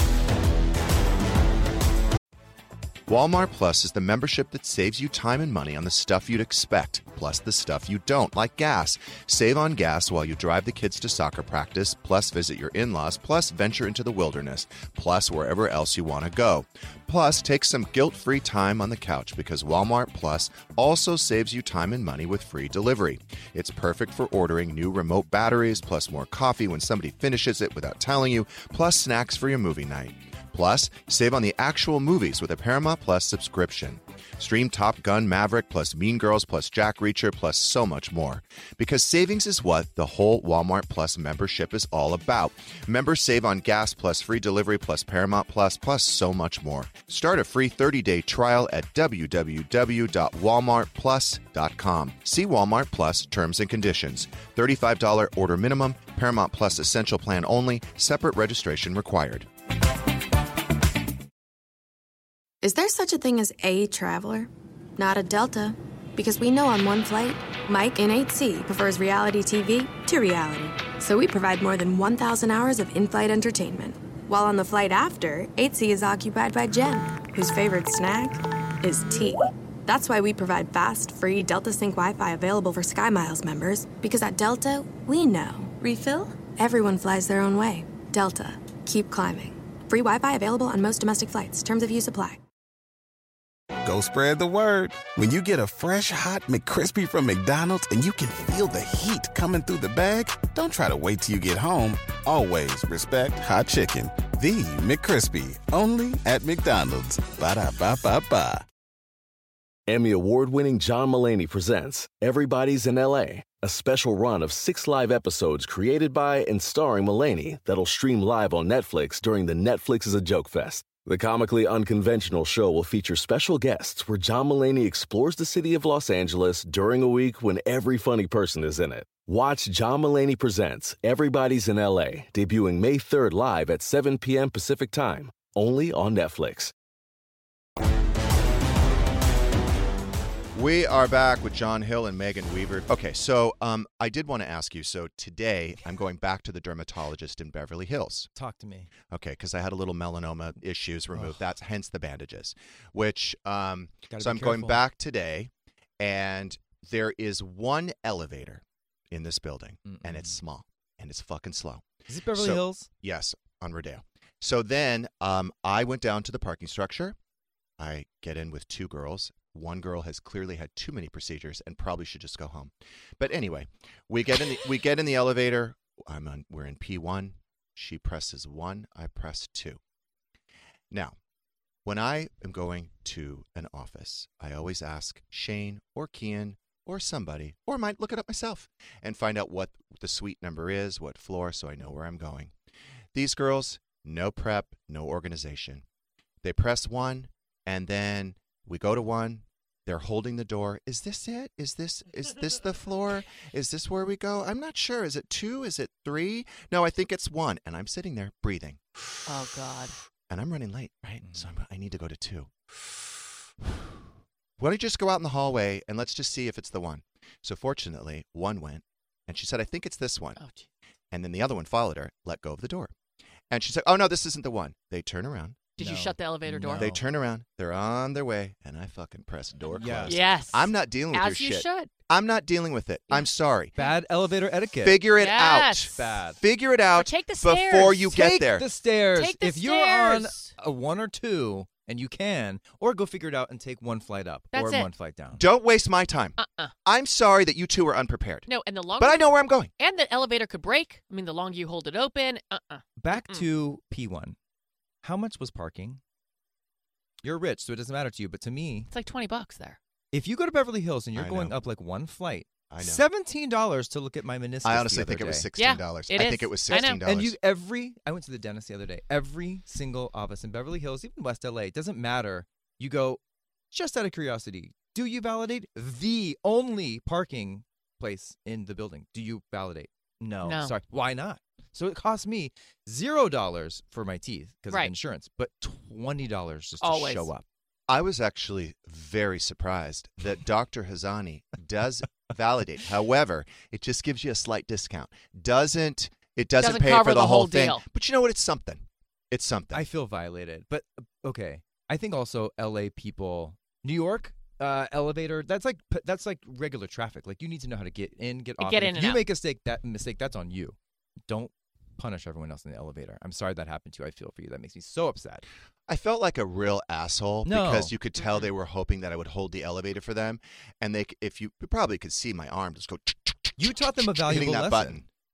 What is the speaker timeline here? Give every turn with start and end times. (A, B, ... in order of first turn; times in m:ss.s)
0:03.1-0:59.5 A
1:02.6-1:32.4 B
1:33.8-1:48.6 C
1:49.9-2:16.7 D
2:20.5-2:28.3 A
2:28.4-2:28.9 E
2:29.1-2:47.2 A
2:34.1-2:34.8 E
2:39.9-2:40.4 E
2:42.1-2:42.9 E
2:47.8-2:59.8 A
3:00.9-3:01.2 A
3:01.8-3:12.5 A
3:13.1-3:15.8 A
3:16.4-3:28.8 A
3:29.3-3:30.0 F
3:30.3-3:32.5 A
3:34.6-3:40.4 A
3:40.4-3:40.7 F
3:41.1-3:42.9 A
3:43.5-3:45.7 A
3:45.8-3:46.9 F
3:45.8-3:47.0 E
3:46.8-3:53.8 A
3:49.8-3:50.2 E
3:50.1-3:51.9 F
3:53.8-3:55.0 E
3:54.8-3:58.7 A
3:55.2-3:56.1 F
3:55.9-3:56.4 E
3:56.9-3:58.2 F
3:58.1-4:05.4 E
3:59.2-4:00.5 F
4:04.5-4:04.9 F
4:05.3-4:09.7 A
4:06.4-4:06.7 F
4:08.5-4:13.5 F
4:13.0-4:14.4 E
4:15.0-4:16.0 E
4:17.2-4:18.9 E
4:18.9-4:19.8 F
4:20.1-4:25.5 E
4:21.2-4:21.6 A
4:22.7-4:23.0 A
4:24.6-4:27.4 A
4:25.6-4:27.0 F
4:27.0-4:33.2 E
4:33.7-4:47.4 E
4:40.4-4:40.8 F
4:46.8-4:47.3 F
4:47.9-4:59.9 A
4:56.6-4:57.8 F
4:59.7-5:10.8 E
5:08.6-5:09.2 F
5:11.3-5:15.4 E
5:15.9-5:25.1 A
5:17.4-5:17.9 E
5:18.2-5:18.5 F
5:23.6-5:25.0 E